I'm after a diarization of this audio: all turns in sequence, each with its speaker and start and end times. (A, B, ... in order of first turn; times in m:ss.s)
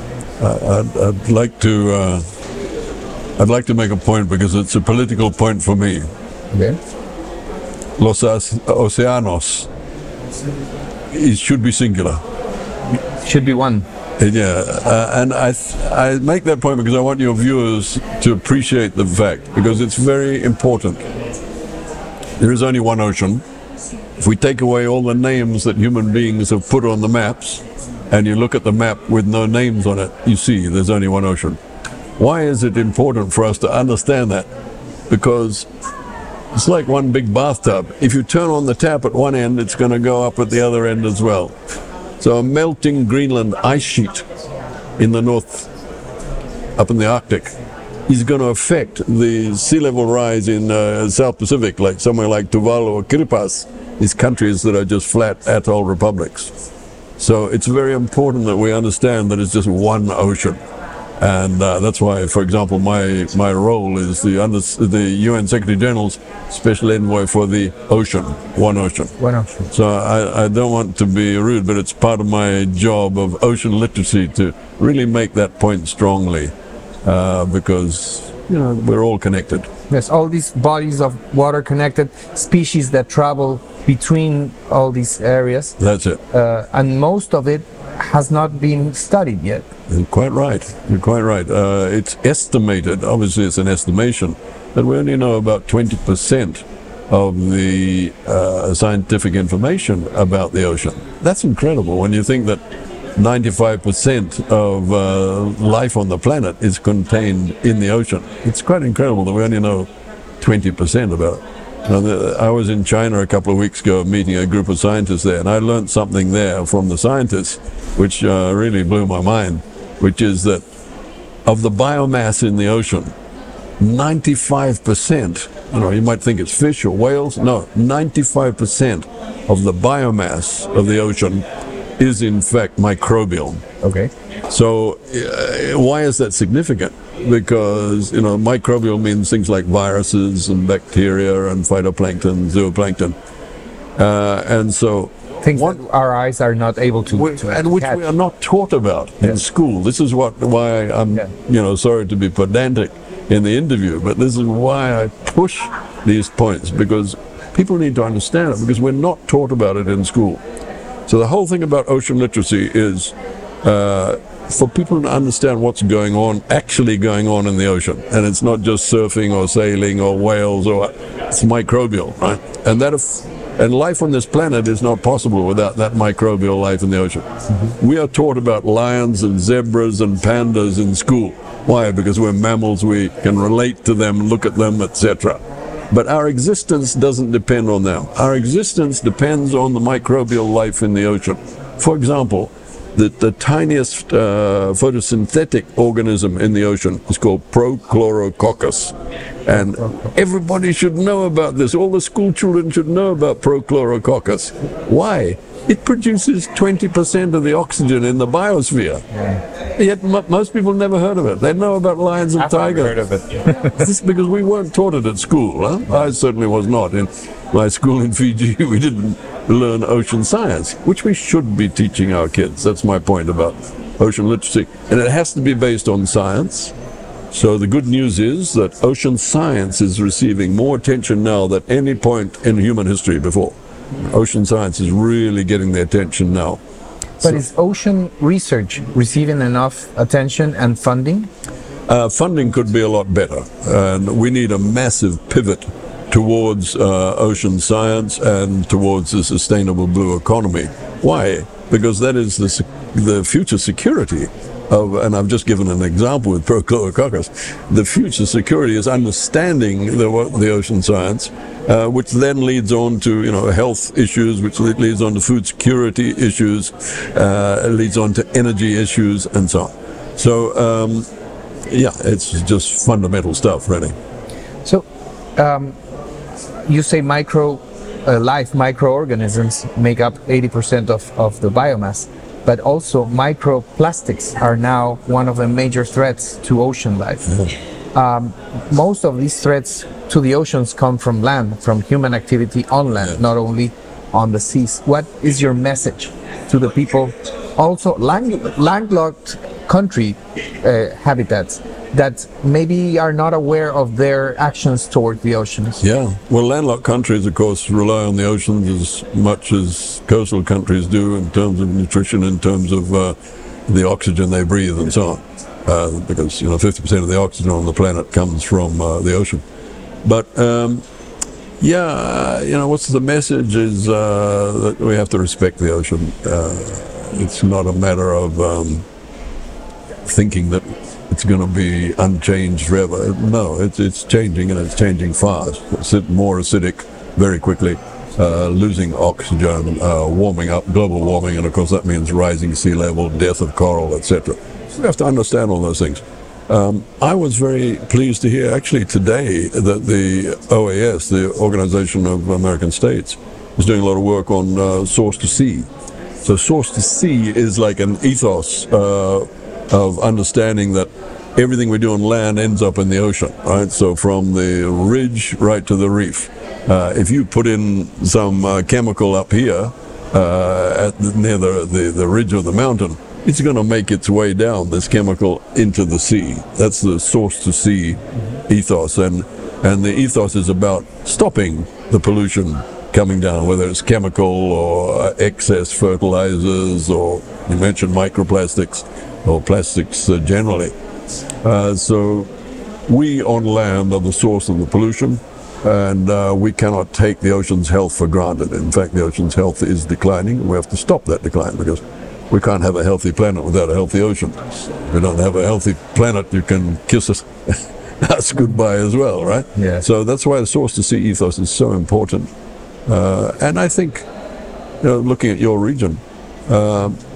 0:00.4-0:02.2 A
0:03.4-0:06.1 A
0:06.5-0:06.8 B
0:08.0-0:09.7 A
0:11.1-0:12.2 A
0:13.2-0:13.9 B
0:14.2-0:21.0 A
0:22.4-0:23.4 A
0:24.2-0:31.6 A
0:32.2-0:34.5 A
0:35.1-0:35.7 A
0:36.5-0:41.6 A
0:42.2-0:44.2 A
0:45.0-0:45.7 A
0:46.8-0:47.5 A
0:48.1-0:56.5 A
0:57.2-1:00.6 A
1:01.2-1:09.2 A
1:09.2-1:09.7 B
1:09.7-1:16.5 A
1:17.0-1:19.7 A
1:19.9-1:25.8 B
1:25.8-1:26.2 A
1:26.3-1:29.7 B
1:29.9-1:42.6 A
1:43.2-1:49.9 A
1:50.4-2:00.6 A
2:01.5-2:03.1 A
2:03.8-2:11.4 A
2:12.0-2:13.6 A
2:13.8-2:14.1 B
2:14.5-2:23.2 A
2:24.0-2:25.8 A
2:25.4-2:28.0 B
2:27.1-2:40.4 A
2:41.1-3:05.4 A
3:05.9-3:18.9 A
3:19.5-3:29.0 A
3:29.8-3:46.7 A
3:32.4-3:33.7 B
3:47.3-3:56.6 A
3:57.2-4:01.3 B
4:01.9-4:31.1 A
4:31.7-4:34.0 A
4:35.4-4:35.8 B
4:36.6-4:47.3 B
4:47.3-4:47.5 A
4:47.9-5:05.8 B
5:05.8-5:13.2 A
5:13.7-5:19.4 A
5:20.0-5:20.8 A
5:21.6-5:28.8 A
5:30.0-5:55.7 A
5:56.2-6:30.7 A
6:31.4-6:32.3 A
6:32.9-6:52.3 A
6:49.6-6:49.8 B
6:52.9-6:54.1 A
6:54.8-6:57.0 A